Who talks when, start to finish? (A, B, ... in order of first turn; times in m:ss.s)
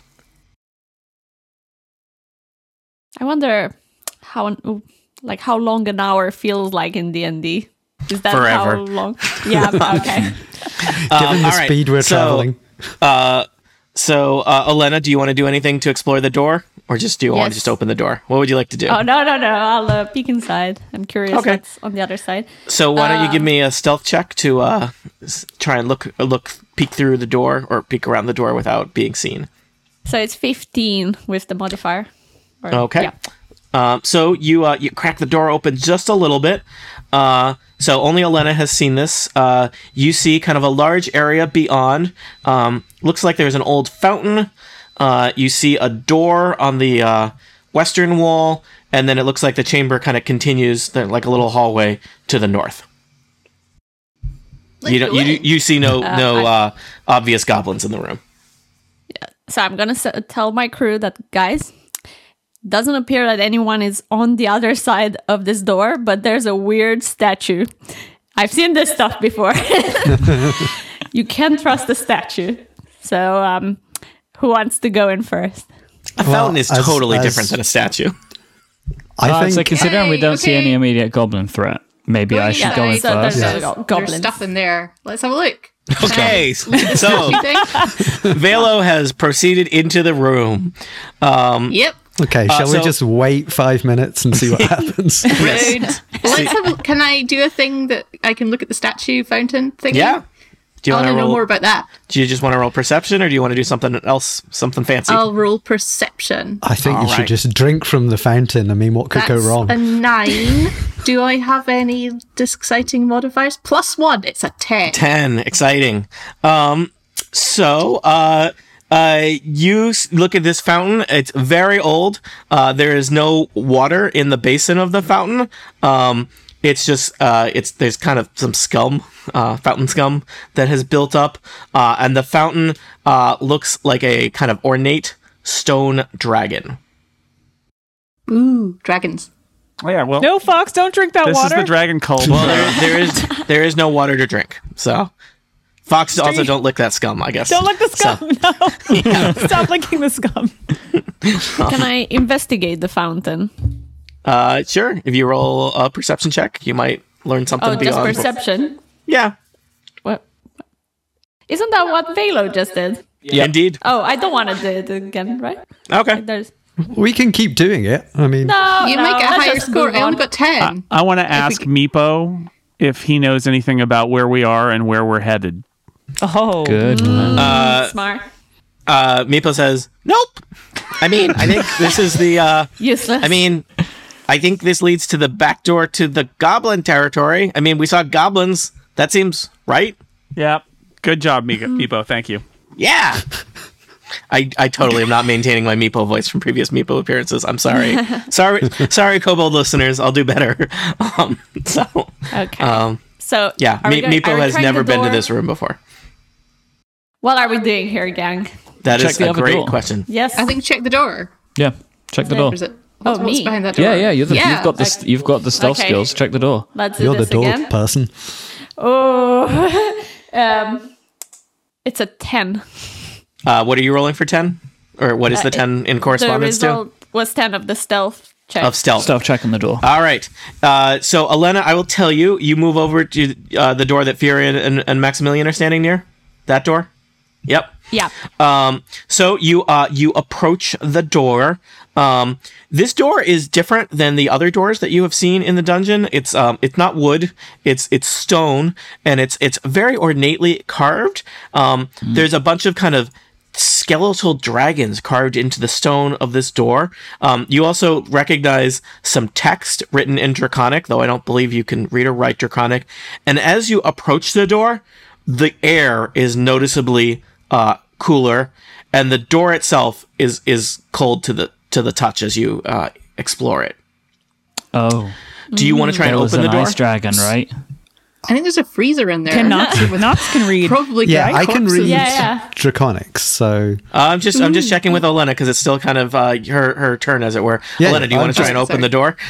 0:03.2-0:10.7 A
0:08.3-0:08.8 B
0:10.9-0:12.5 B
0:11.0-0:12.6 C
0:13.0-0:19.0 B
0:17.3-0:17.7 A
0:18.9-0:23.5 A
0:21.3-0:21.6 B
0:22.7-0:29.5 B
0:30.0-0:32.1 A
0:32.6-0:33.1 A
0:32.7-0:33.1 B
0:33.7-0:52.8 B
0:54.8-0:55.5 D
0:54.8-0:58.2 B
0:56.0-0:56.5 A
0:59.2-1:01.7 A
1:02.6-1:07.7 A
1:08.3-1:13.8 A
1:10.2-1:10.5 C
1:14.4-1:15.7 A
1:16.2-1:18.1 B
1:16.2-1:17.6 C
1:19.2-1:19.8 C
1:19.2-1:23.4 E
1:19.7-1:20.8 D
1:22.3-1:28.3 D
1:22.5-1:24.4 A
1:26.0-1:27.4 B
1:27.0-1:28.0 F
1:28.1-1:31.8 B
1:31.7-1:32.0 D
1:32.2-1:35.7 C
1:32.5-1:32.9 B
1:35.4-1:40.2 D
1:35.4-1:36.5 B
1:35.6-1:36.2 A
1:39.9-1:40.2 B
1:40.8-1:41.4 B
1:40.9-1:41.9 D
1:42.1-1:45.2 B
1:45.1-1:46.6 D
1:46.6-1:50.0 C
1:46.8-1:47.3 B
1:49.1-1:55.0 D
1:54.9-2:16.8 B
2:18.3-2:19.3 D
2:19.8-2:20.3 G
2:20.2-2:21.8 F
2:21.2-2:22.9 G
2:22.2-2:25.1 B
2:25.9-2:28.2 B
2:27.4-2:30.6 F
2:28.8-2:29.4 B
2:31.2-2:31.8 B
2:31.6-2:33.7 A
2:34.2-2:38.3 B
2:37.6-2:38.8 A
2:39.1-2:39.3 B
2:41.5-2:45.6 A
2:43.3-2:43.8 B
2:45.9-2:46.2 B
2:46.1-2:46.5 A
2:46.8-2:48.6 C
2:48.4-2:50.3 A
2:48.8-2:51.5 D
2:50.6-2:55.6 G
2:56.2-2:57.1 F
2:56.6-2:57.5 E
2:56.9-2:58.3 A
2:57.3-2:58.0 B
2:58.9-3:00.4 B
3:01.0-3:03.6 B
3:02.8-3:03.5 A
3:04.3-3:10.0 B
3:10.4-3:12.4 G
3:12.8-3:13.2 B
3:14.3-3:23.0 B
3:17.9-3:18.2 A
3:22.3-3:25.3 A
3:23.6-3:25.8 B
3:27.2-3:28.5 A
3:28.8-3:30.1 B
3:28.9-3:29.8 E
3:30.1-3:30.6 A
3:30.3-3:31.3 D
3:31.6-3:32.6 E
3:32.3-3:33.7 A
3:32.3-3:34.7 D
3:33.7-3:36.7 E
3:34.8-3:35.0 A
3:35.6-3:36.1 A
3:36.7-3:37.7 A
3:37.0-3:38.1 C
3:38.8-3:40.9 A
3:41.8-3:43.0 A
3:43.4-3:46.8 B
3:45.3-3:48.8 A
3:48.6-3:49.1 B
3:49.0-3:49.8 E
3:49.8-3:56.9 B
3:57.5-3:57.7 B
3:58.3-4:33.8 B
4:34.7-4:35.1 E
4:35.5-4:36.1 A
4:35.5-4:37.2 B
4:36.0-4:37.5 E
4:38.3-4:42.3 D
4:39.3-4:41.5 F
4:39.4-4:39.9 A
4:41.0-4:43.8 C
4:41.8-4:42.5 A
4:43.9-4:49.2 B
4:44.3-4:45.0 D
4:47.8-4:48.6 C
4:48.3-4:48.9 D